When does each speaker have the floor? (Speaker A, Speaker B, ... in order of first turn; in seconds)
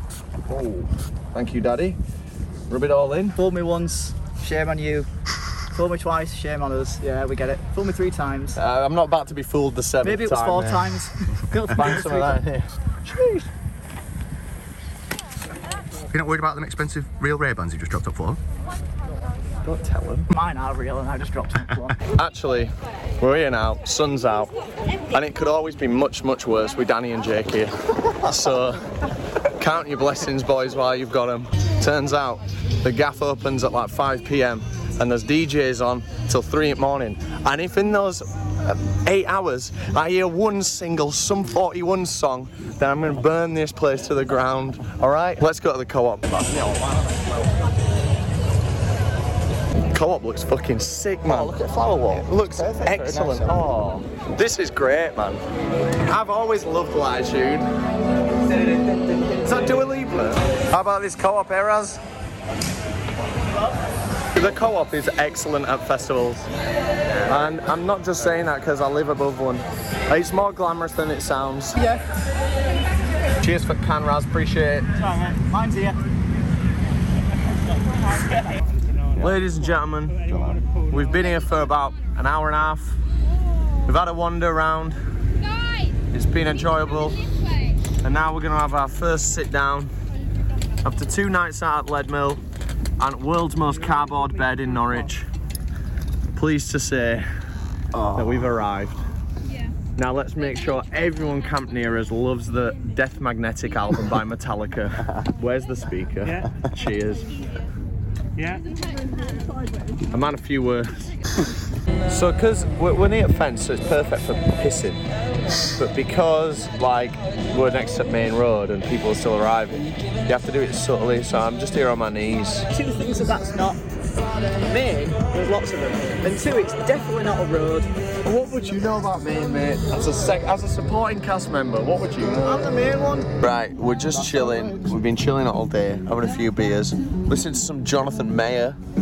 Speaker A: 0.5-2.0, 2.7-3.4, 8.6-10.9, 11.8-12.7, 19.6-20.3, 22.1-24.5, 25.1-28.8, 29.6-46.6, 49.9-55.4, 56.0-57.7, 59.4-62.0, 64.3-66.5, 67.2-71.8, 73.4-74.9, 79.2-80.3, 80.9-83.0, 83.8-85.0, 86.1-87.2, 88.0-89.9, 90.8-92.4, 93.0-95.3, 96.3-97.3, 98.2-99.0, 100.0-107.3, 110.1-111.1, 112.1-115.0, 115.7-122.7, 128.2-132.7, 133.4-138.8
Speaker B: 3.4-5.1, 5.7-8.6, 10.0-12.4, 20.3-22.0, 71.8-72.0, 75.0-76.0, 122.7-123.8, 124.5-127.9, 132.4-133.3
Speaker C: 16.1-18.4, 51.2-53.6, 97.9-98.6